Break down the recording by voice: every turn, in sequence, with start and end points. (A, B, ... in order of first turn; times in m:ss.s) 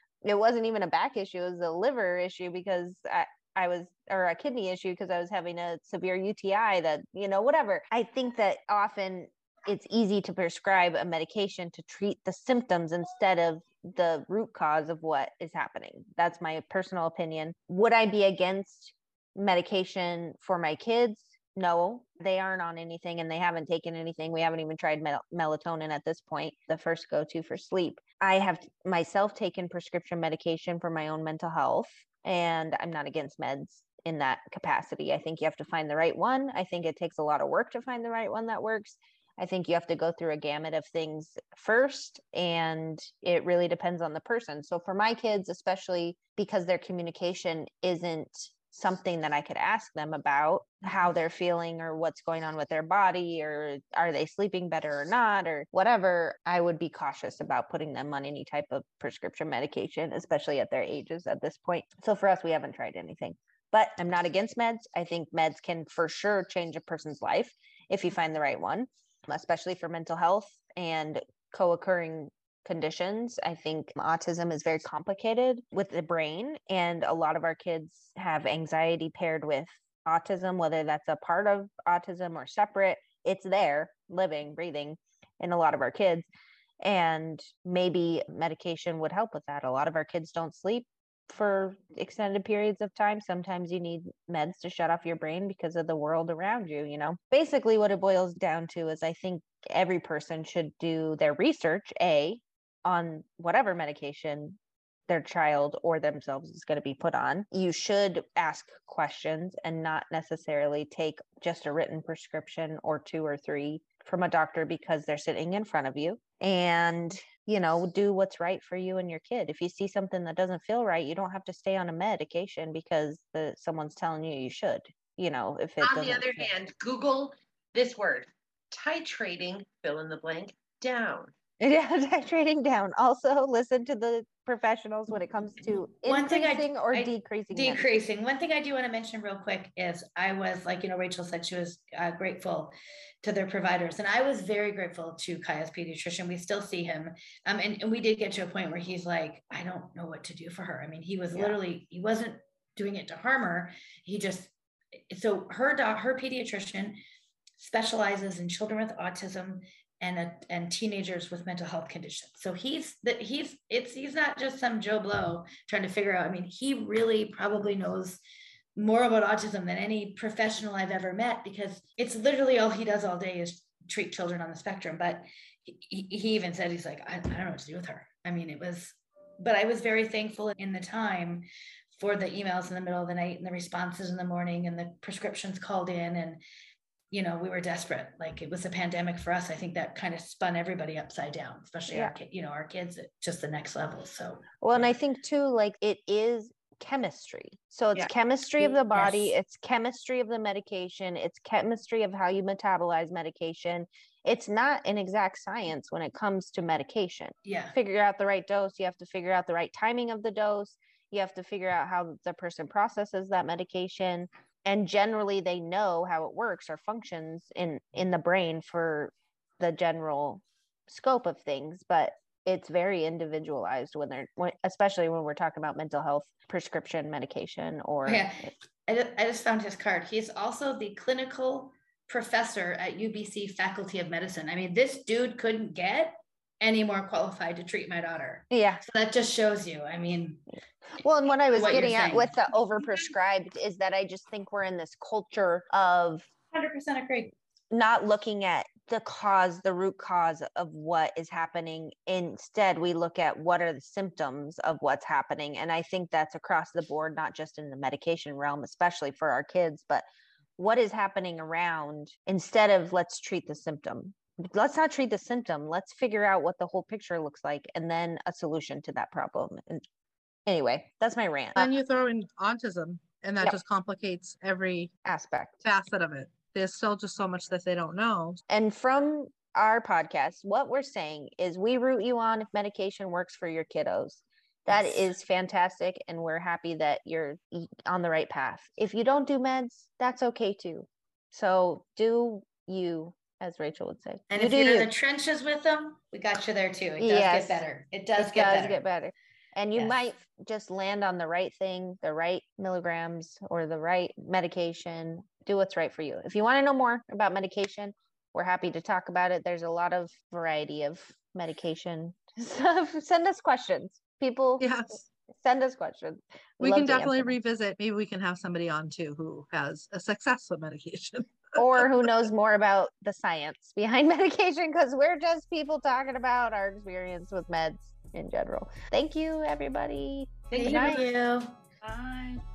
0:00.2-1:26.3 A
1:26.8-2:06.5 A
2:05.8-2:11.3 B
2:11.6-2:18.0 A
2:16.0-2:34.5 C
2:35.1-2:37.0 C
2:37.6-2:48.2 C
2:48.8-3:06.4 C
3:07.1-3:14.4 C
3:11.9-3:12.1 A
3:14.6-3:48.5 A
3:17.9-3:19.3 C
3:27.4-3:27.7 C
3:48.0-4:00.4 C
3:58.5-3:58.8 A
4:01.0-4:06.3 A
4:01.5-4:02.4 C
4:06.5-4:07.3 C
4:07.7-4:20.0 A
4:20.6-4:29.8 A
4:30.4-4:31.7 A
4:31.6-4:34.9 D
4:35.0-4:35.6 A
4:35.6-4:38.4 D
4:38.5-4:54.9 A
4:54.3-4:58.8 C
4:57.0-4:57.6 A
4:58.2-5:14.7 A
5:14.6-5:15.0 D
5:15.3-5:17.4 A
5:16.6-5:21.9 D
5:21.6-5:31.0 A
5:30.5-5:32.4 C
5:30.5-5:31.0 D